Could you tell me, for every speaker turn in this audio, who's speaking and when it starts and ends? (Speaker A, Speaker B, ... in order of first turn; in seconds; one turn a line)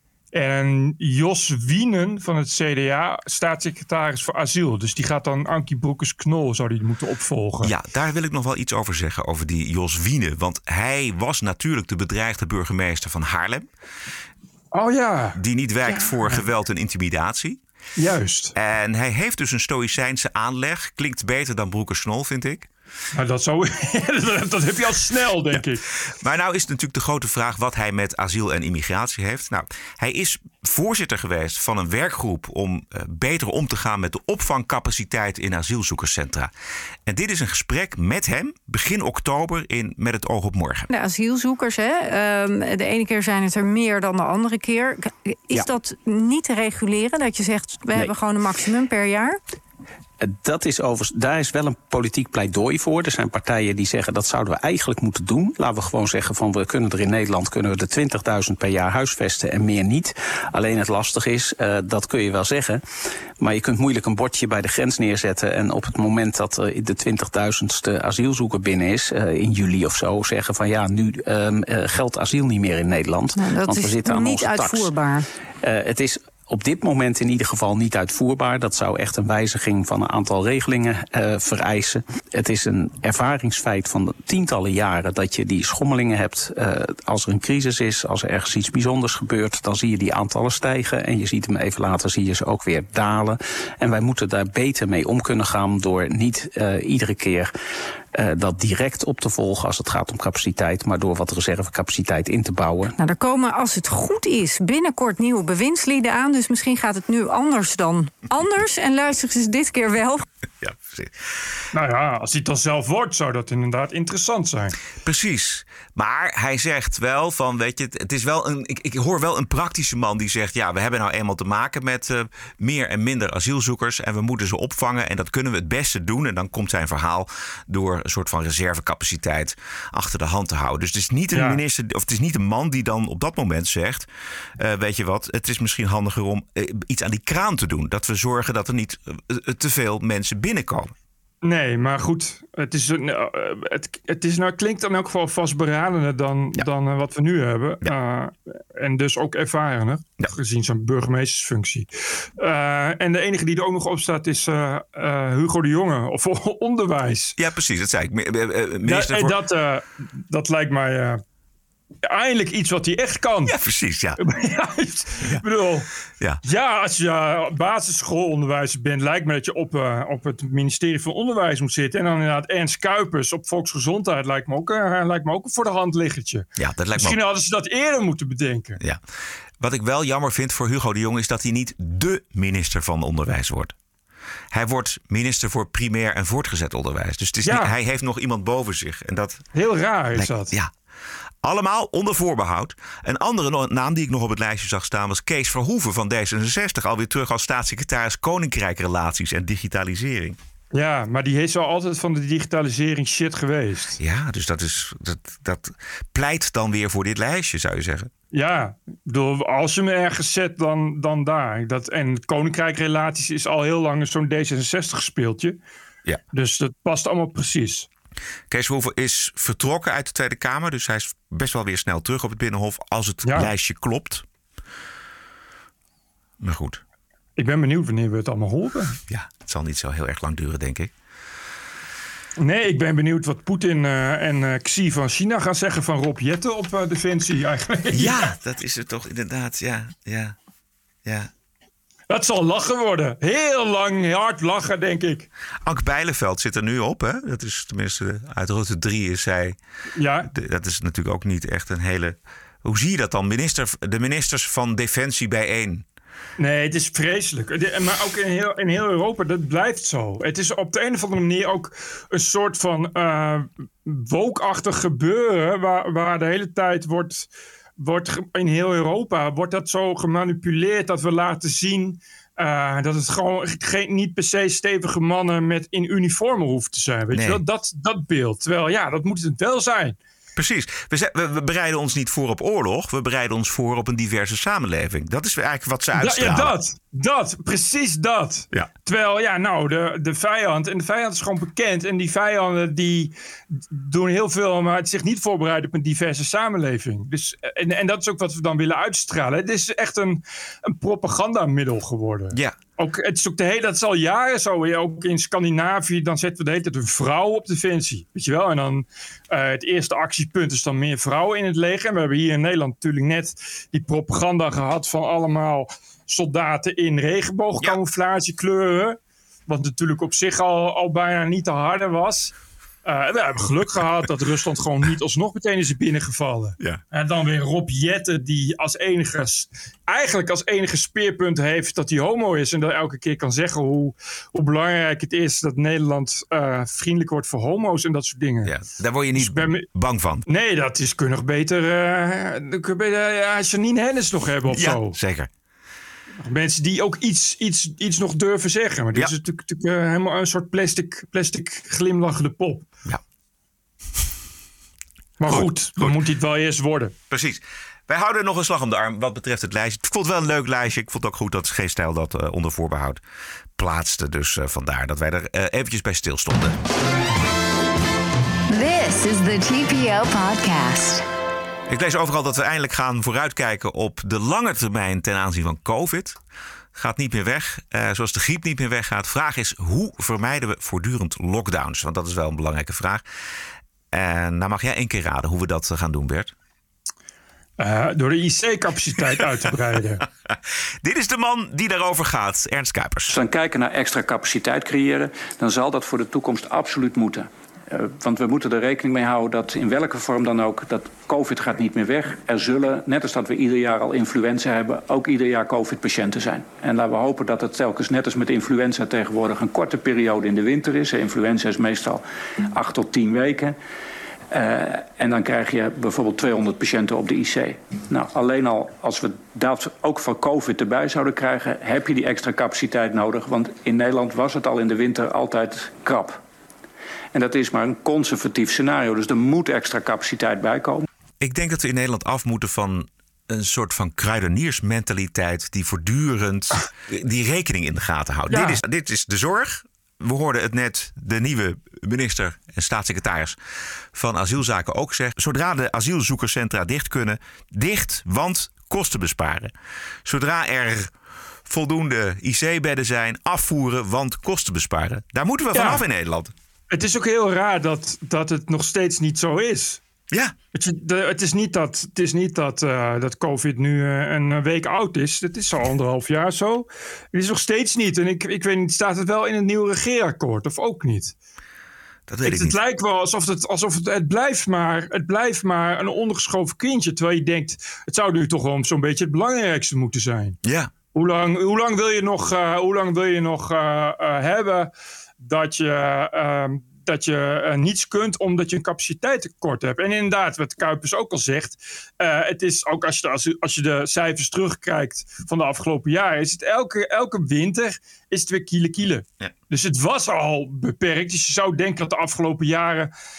Speaker A: 0.3-7.7
Speaker B: 7.6-13.7
Speaker A: 14.7-16.4
Speaker B: 15.3-17.6
Speaker A: 18.0-18.6
Speaker B: 18.6-22.7
Speaker A: 23.1-25.9
Speaker B: 25.5-36.5
Speaker B: 37.1-40.9
Speaker C: 40.9-49.4
Speaker D: 50.2-62.8
Speaker D: 63.4-74.9
Speaker C: 73.4-75.3
Speaker D: 75.6-97.5
Speaker D: 98.2-102.9
Speaker C: 103.0-110.2
Speaker B: 110.6-111.2
Speaker A: 111.7-114.8
Speaker B: 115.0-140.9
Speaker A: 131.3-131.6
Speaker A: 141.4-151.9
Speaker A: 152.4-157.4
Speaker B: 157.4-159.4
Speaker A: 158.8-161.2
Speaker A: 162.0-163.6
Speaker B: 163.5-164.2
Speaker A: 164.2-165.9
Speaker A: 166.4-178.8
Speaker B: 176.6-177.2
Speaker B: 179.6-183.8
Speaker B: 184.5-189.4
Speaker A: 187.4-187.7
Speaker A: 189.5-190.5
Speaker B: 190.2-190.7
Speaker B: 191.4-200.4
Speaker A: 200.7-204.0
Speaker B: 204.0-208.1
Speaker A: 208.3-215.6
Speaker A: 216.3-217.9
Speaker B: 218.5-224.2
Speaker A: 223.2-223.5
Speaker B: 226.4-226.8
Speaker A: 227.4-229.0
Speaker B: 229.1-230.9
Speaker A: 232.4-238.3
Speaker B: 237.9-240.4
Speaker B: 241.1-241.3
Speaker A: 242.1-245.3
Speaker B: 245.6-249.6
Speaker A: 250.0-250.3
Speaker B: 250.3-255.8
Speaker A: 256.4-280.0
Speaker B: 277.1-277.4
Speaker B: 280.4-286.6
Speaker A: 286.0-338.5
Speaker B: 338.4-340.2
Speaker A: 339.2-339.7
Speaker A: 340.3-345.0
Speaker B: 344.5-345.3
Speaker A: 346.2-352.7
Speaker A: 355.2-356.9
Speaker B: 355.2-356.0
Speaker B: 357.1-363.0
Speaker B: 363.6-366.6
Speaker E: 368.5-371.0
Speaker B: 371.7-376.2
Speaker B: 376.7-383.1
Speaker B: 383.9-386.3
Speaker A: 387.6-390.0
Speaker B: 390.3-393.1
Speaker F: 393.1-413.6
Speaker F: 414.3-426.2
Speaker F: 427.1-430.9
Speaker B: 431.2-443.4
Speaker A: 438.3-438.6
Speaker B: 443.9-449.5
Speaker B: 450.1-450.9
Speaker B: 451.5-456.3
Speaker A: 455.5-455.8
Speaker A: 456.7-459.8
Speaker A: 460.5-471.1
Speaker B: 472.1-472.6
Speaker A: 472.2-480.4
Speaker B: 480.4-480.7
Speaker A: 480.9-502.9